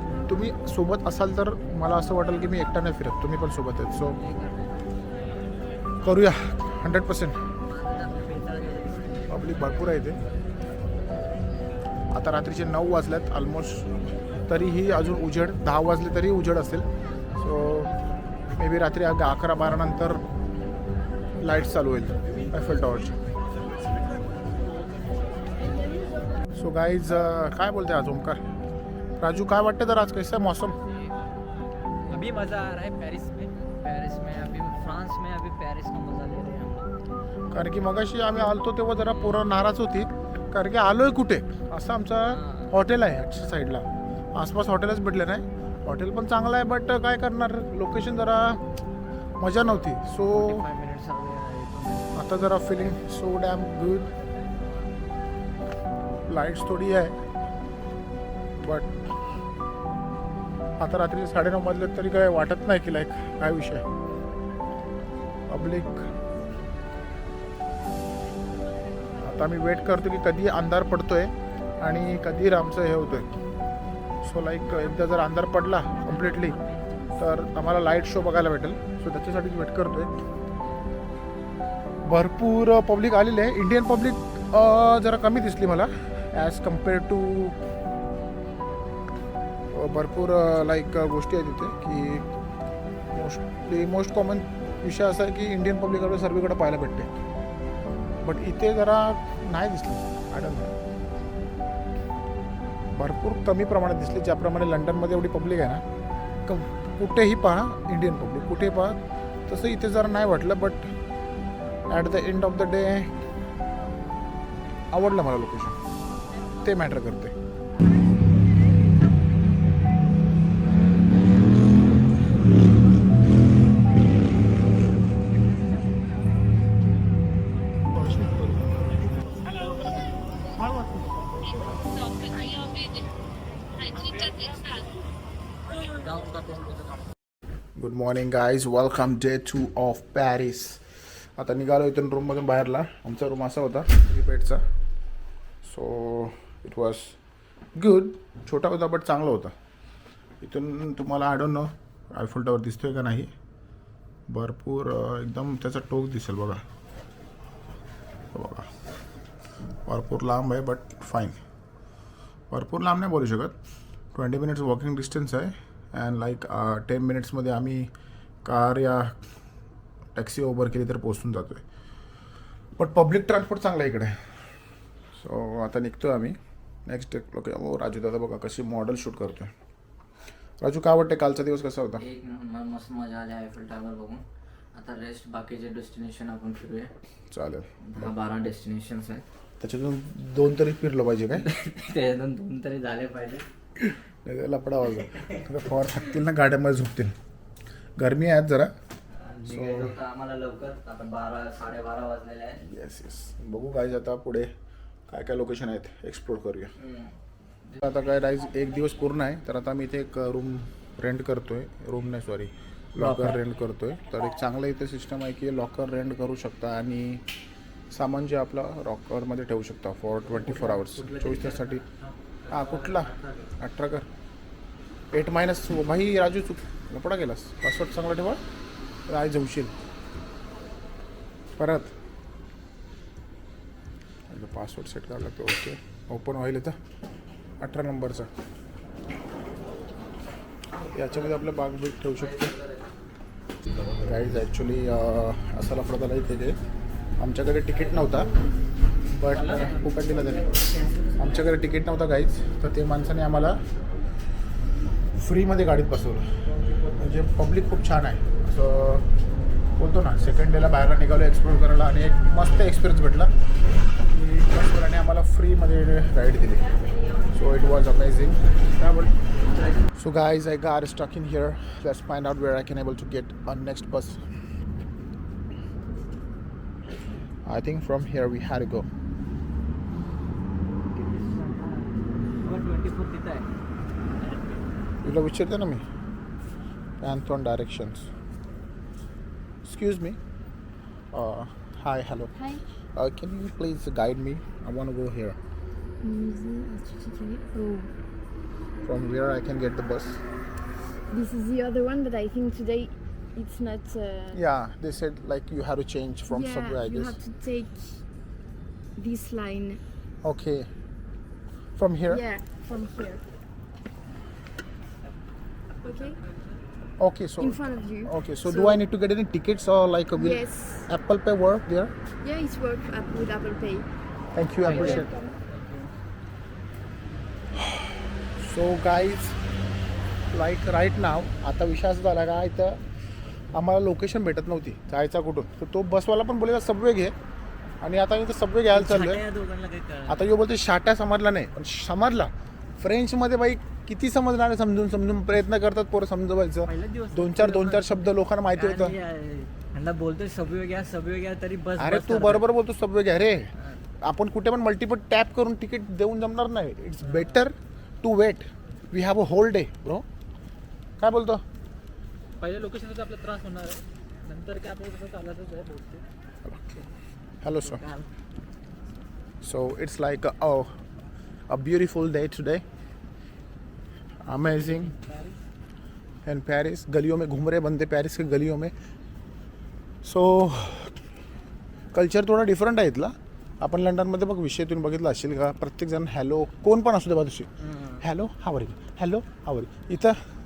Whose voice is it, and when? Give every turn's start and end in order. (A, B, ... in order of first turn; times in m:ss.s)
0:00.3-0:04.2 A
0:04.2-0:04.9 B
0:06.0-0:07.4 A
0:07.7-0:09.3 B
0:09.3-0:10.2 A
0:12.1-0:13.9 A
0:14.5-0:16.9 A
0:17.4-0:17.9 A
0:18.6-0:20.2 A
0:21.4-0:23.2 A
0:26.6-0:28.4 A
0:29.2-0:30.8 A
0:32.1-0:36.9 B
0:37.5-0:48.6 A
0:42.3-0:42.7 B
0:49.4-0:50.6 A
0:50.3-0:52.2 B
0:52.1-0:54.1 A
0:56.3-0:57.2 A
0:58.6-0:58.9 A
1:00.8-1:03.8 A
1:05.5-1:06.1 A
1:09.2-1:13.3 A
1:14.2-1:16.6 A
1:17.2-1:20.1 A
1:22.0-1:27.6 A
1:29.7-1:32.3 A
1:33.1-1:37.1 A
1:38.2-1:40.7 A
1:42.9-1:45.8 A
1:46.5-1:50.9 A
1:51.9-1:53.1 A
1:54.9-1:55.8 A
1:56.6-1:57.3 A
2:08.0-2:08.6 A
2:16.0-2:16.9 B
2:17.8-2:24.6 A
2:25.6-2:27.2 A
2:27.8-2:29.5 A
2:30.4-2:33.3 A
2:34.3-2:36.6 A
2:38.3-2:38.7 A
2:39.9-2:41.4 A
2:42.5-2:43.6 A
2:44.1-2:47.9 A
2:48.4-2:49.2 A
2:50.2-2:51.6 A
2:52.8-2:54.4 A
2:55.2-2:56.4 A
2:56.9-2:59.5 A
3:00.6-3:02.0 A
3:02.0-3:04.2 B
3:04.8-3:06.9 B
3:07.3-3:08.1 A
3:07.8-3:09.2 B
3:09.6-3:11.4 A
3:11.4-3:13.4 B
3:13.8-3:17.2 A
3:18.0-3:18.7 A
3:19.1-3:22.6 B
3:19.4-3:20.0 A
3:22.6-3:24.5 A
3:25.1-3:26.7 A
3:26.8-3:27.1 B
3:27.8-3:37.2 A
3:33.0-3:33.4 B
3:37.9-3:41.8 A
3:40.3-3:43.5 B
3:42.5-3:44.1 A
3:45.1-3:48.4 A
3:49.1-3:49.7 A
3:51.6-3:51.9 A
3:54.3-3:56.8 A
3:57.6-3:58.3 A
4:00.8-4:01.3 B
4:00.9-4:02.6 A
4:02.2-4:02.9 B
4:03.9-4:06.6 A
4:07.2-4:08.3 A
4:09.1-4:10.6 A
4:09.3-4:11.4 B
4:11.2-4:13.6 A
4:15.2-4:16.3 A
4:17.0-4:19.1 A
4:19.8-4:23.3 A
4:24.1-4:26.7 A
4:27.2-4:29.1 A
4:30.0-4:34.2 A
4:37.4-4:38.9 A
4:41.0-4:41.9 B
4:42.4-4:43.5 B
4:45.0-4:45.8 A
4:47.0-4:48.1 A
4:49.6-4:50.2 A
4:51.1-4:52.3 A
4:52.4-4:52.6 C
4:53.0-4:55.4 A
4:56.0-4:57.9 C
4:58.8-5:00.2 A
5:01.1-5:04.4 C
5:04.3-5:07.2 A
5:06.3-5:08.0 C
5:09.0-5:09.8 C
5:10.2-5:10.7 A
5:11.8-5:12.2 A
5:12.1-5:13.2 C
5:15.8-5:16.2 C
5:17.0-5:21.9 A
5:17.4-5:18.8 C
5:20.2-5:20.9 C
5:22.2-5:23.9 C
5:24.3-5:25.1 A
5:24.6-5:25.4 C
5:24.7-5:25.9 B
5:28.4-5:29.4 A
5:30.3-5:32.8 A
5:33.5-5:37.2 A
5:37.8-5:39.2 A
5:38.7-5:40.3 B
5:40.1-5:49.0 A
5:46.7-5:52.4 B
5:51.8-6:00.0 A
5:57.1-5:57.4 B
6:01.0-6:01.4 A
6:02.4-6:06.0 B
6:07.4-6:07.8 A
6:07.6-6:08.1 B
6:09.4-6:10.8 A
6:11.5-6:12.6 A
6:14.2-6:14.9 A
6:14.5-6:15.4 B
6:16.2-6:18.7 A
6:20.0-6:21.0 A
6:21.9-6:27.5 A
6:27.6-6:28.0 B
6:28.0-6:30.2 A